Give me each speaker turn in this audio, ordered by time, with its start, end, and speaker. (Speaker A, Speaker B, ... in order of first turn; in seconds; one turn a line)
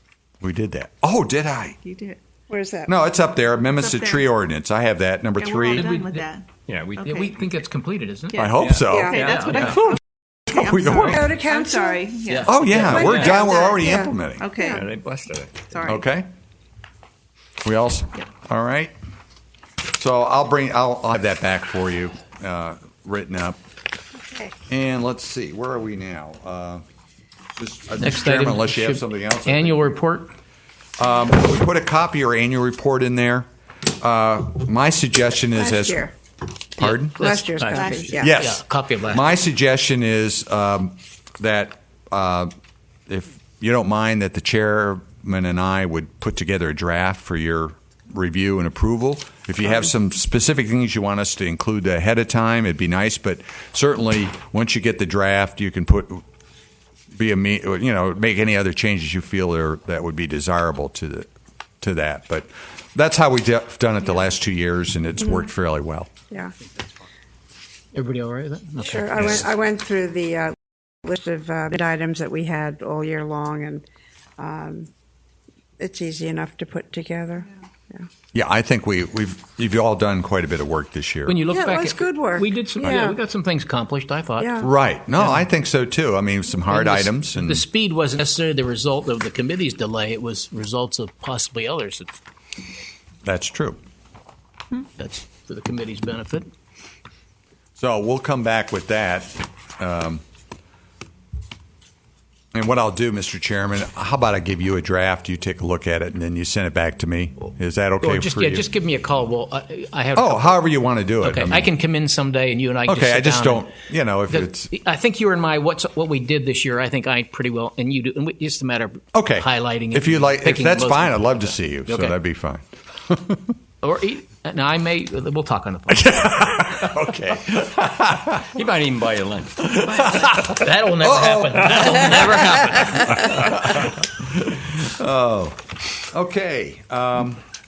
Speaker A: 0.4-1.8
Speaker B: 1.8-2.2
Speaker C: 2.5-2.9
Speaker A: 2.9-5.9
Speaker B: 3.7-4.2
Speaker B: 5.4-7.3
Speaker D: 5.7-6.3
Speaker E: 6.7-7.1
Speaker D: 7.0-8.5
Speaker B: 8.3-14.9
Speaker A: 8.4-9.2
Speaker E: 8.6-9.9
Speaker C: 8.9-9.4
Speaker D: 9.2-9.7
Speaker A: 10.5-11.2
Speaker C: 11.0-12.2
Speaker D: 12.3-13.0
Speaker A: 12.4-14.5
Speaker C: 12.7-14.9
Speaker E: 12.9-13.5
Speaker E: 14.7-15.7
Speaker B: 15.7-16.1
Speaker A: 15.8-16.3
Speaker A: 17.6-18.9
Speaker A: 20.0-23.6
Speaker A: 24.7-26.8
Speaker A: 27.6-29.8
Speaker D: 28.0-30.3
Speaker A: 31.0-33.5
Speaker A: 34.0-36.1
Speaker C: 35.5-36.1
Speaker A: 36.8-37.2
Speaker D: 36.8-39.4
Speaker C: 37.2-38.3
Speaker B: 37.6-38.2
Speaker A: 38.2-42.5
Speaker A: 43.1-56.2
Speaker A: 57.1-61.3
Speaker A: 61.8-66.1
Speaker D: 67.9-69.5
Speaker C: 68.8-73.8
Speaker C: 74.4-74.9
Speaker C: 75.8-78.1
Speaker A: 78.3-81.4
Speaker D: 81.3-84.5
Speaker C: 81.5-83.2
Speaker C: 84.4-84.7
Speaker A: 84.6-87.7
Speaker D: 85.2-85.5
Speaker D: 86.7-92.1
Speaker A: 93.2-93.8
Speaker D: 95.0-96.5
Speaker A: 97.8-100.2
Speaker A: 102.5-108.7
Speaker D: 108.0-113.7
Speaker A: 110.1-111.7
Speaker A: 112.9-114.7
Speaker D: 114.3-122.1
Speaker A: 119.1-123.5
Speaker D: 123.8-126.6
Speaker A: 125.9-128.5
Speaker E: 128.3-130.4
Speaker A: 129.7-137.4
Speaker B: 129.9-130.2
Speaker D: 130.2-133.4